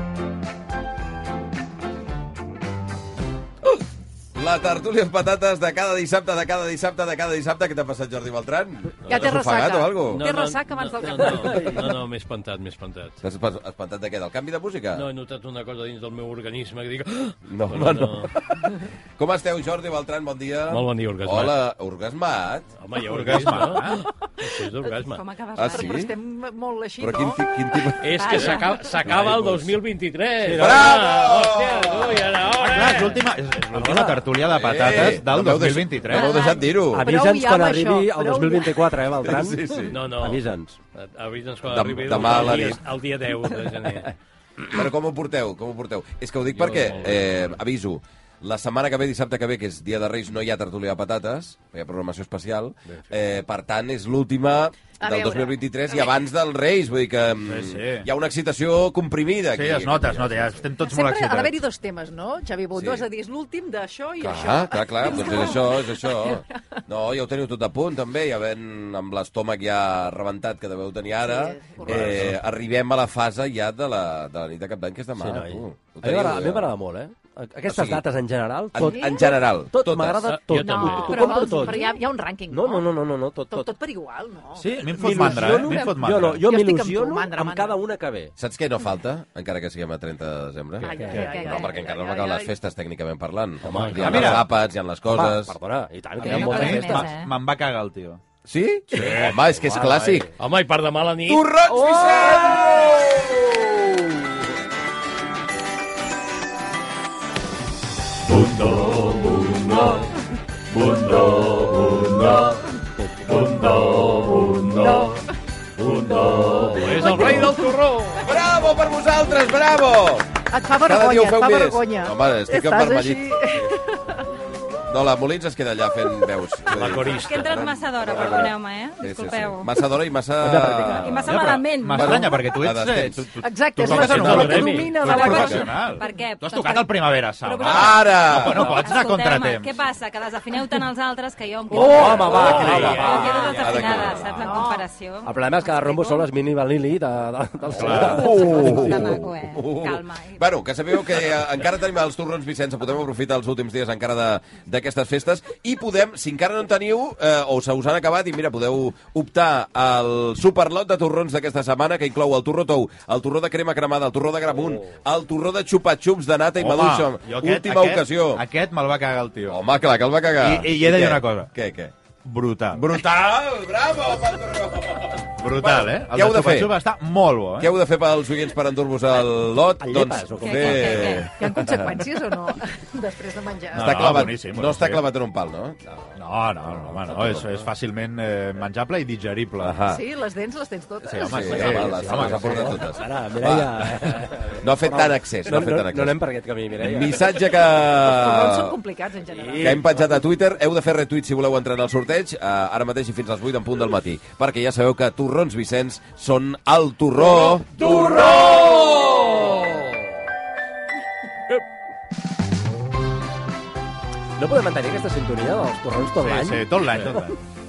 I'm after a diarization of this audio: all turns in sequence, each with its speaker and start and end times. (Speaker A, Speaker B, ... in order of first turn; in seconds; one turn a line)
Speaker A: 4.3-10.2
Speaker B: 9.1-11.9
Speaker C: 10.1-13.2
Speaker A: 13.2-15.1
Speaker C: 14.9-18.3
Speaker A: 17.5-18.6
Speaker A: 19.2-22.7
Speaker C: 20.7-21.6
Speaker C: 22.8-25.2
Speaker D: 23.0-24.1
Speaker E: 25.0-26.1
Speaker A: 25.6-26.1
Speaker B: 25.7-27.4
Speaker A: 27.0-29.7
Speaker C: 28.0-33.3
Speaker E: 28.2-29.1
Speaker F: 30.4-31.0
Speaker A: 30.6-32.3
Speaker D: 32.5-36.5
Speaker F: 33.8-34.3
Speaker A: 34.5-37.1
Speaker E: 36.1-36.7
Speaker B: 36.4-39.0
Speaker F: 36.9-39.6
Speaker A: 39.2-40.1
Speaker C: 39.8-44.1
Speaker F: 40.2-40.8
Speaker A: 41.6-42.8
Speaker A: 44.7-60.6
Speaker C: 46.5-47.6
Speaker B: 55.0-56.1
Speaker D: 57.4-58.1
Speaker D: 59.5-61.6
Speaker B: 60.8-66.4
Speaker A: 62.8-63.1
Speaker A: 64.2-76.7
Speaker B: 71.2-72.3
Speaker F: 75.2-82.0
Speaker A: 77.7-78.0
Speaker A: 78.7-80.3
Speaker B: 78.8-79.4
Speaker C: 80.2-81.4
Speaker B: 80.5-82.9
Speaker E: 81.0-82.0
Speaker F: 82.5-83.7
Speaker B: 83.5-85.8
Speaker D: 84.6-86.5
Speaker F: 84.9-88.3
Speaker B: 86.4-87.8
Speaker A: 88.4-95.5
Speaker B: 90.8-92.5
Speaker F: 90.8-91.8
Speaker E: 91.3-91.6
Speaker F: 93.6-94.5
Speaker C: 93.7-94.3
Speaker D: 94.0-94.4
Speaker F: 95.1-97.1
Speaker D: 96.2-98.2
Speaker E: 96.3-97.3
Speaker A: 98.5-100.3
Speaker F: 98.9-100.3
Speaker D: 99.0-99.3
Speaker C: 100.4-101.5
Speaker A: 101.3-103.7
Speaker F: 101.7-102.7
Speaker C: 108.2-110.1
Speaker C: 110.7-112.6
Speaker C: 113.2-115.1
Speaker B: 114.8-115.2
Speaker C: 115.8-118.2
Speaker B: 116.1-117.8
Speaker A: 117.0-117.5
Speaker E: 117.2-117.6
Speaker A: 118.2-123.6
Speaker B: 120.5-124.0
Speaker A: 124.9-133.3
Speaker C: 126.7-127.7
Speaker E: 127.1-129.7
Speaker F: 130.4-131.2
Speaker E: 130.9-132.4
Speaker D: 131.3-139.8
Speaker B: 133.4-135.7
Speaker C: 134.0-135.0
Speaker E: 134.9-146.3
Speaker A: 137.6-138.9
Speaker F: 141.7-144.6
Speaker A: 141.8-144.3
Speaker C: 142.2-144.2
Speaker D: 142.5-142.9
Speaker B: 144.3-144.9
Speaker F: 145.2-149.3
Speaker D: 147.7-148.8
Speaker A: 147.7-168.4
Speaker E: 147.9-150.4
Speaker D: 166.6-169.6
Speaker A: 169.5-171.9
Speaker D: 170.4-171.5
Speaker D: 172.2-173.0
Speaker A: 172.7-176.8
Speaker D: 175.4-177.7
Speaker A: 177.6-181.3
Speaker F: 179.8-181.3
Speaker E: 180.4-181.3
Speaker B: 181.3-184.0
Speaker D: 183.7-185.0
Speaker A: 183.7-186.2
Speaker D: 186.2-189.8
Speaker A: 186.7-187.5
Speaker A: 189.6-190.0
Speaker B: 189.8-191.9
Speaker D: 191.0-192.8
Speaker A: 191.2-196.2
Speaker F: 191.5-197.3
Speaker A: 196.8-198.8
Speaker B: 197.9-200.1
Speaker F: 199.3-200.1
Speaker A: 199.6-209.2
Speaker F: 207.7-209.2
Speaker C: 208.4-209.2
Speaker F: 214.4-217.3
Speaker D: 216.2-217.4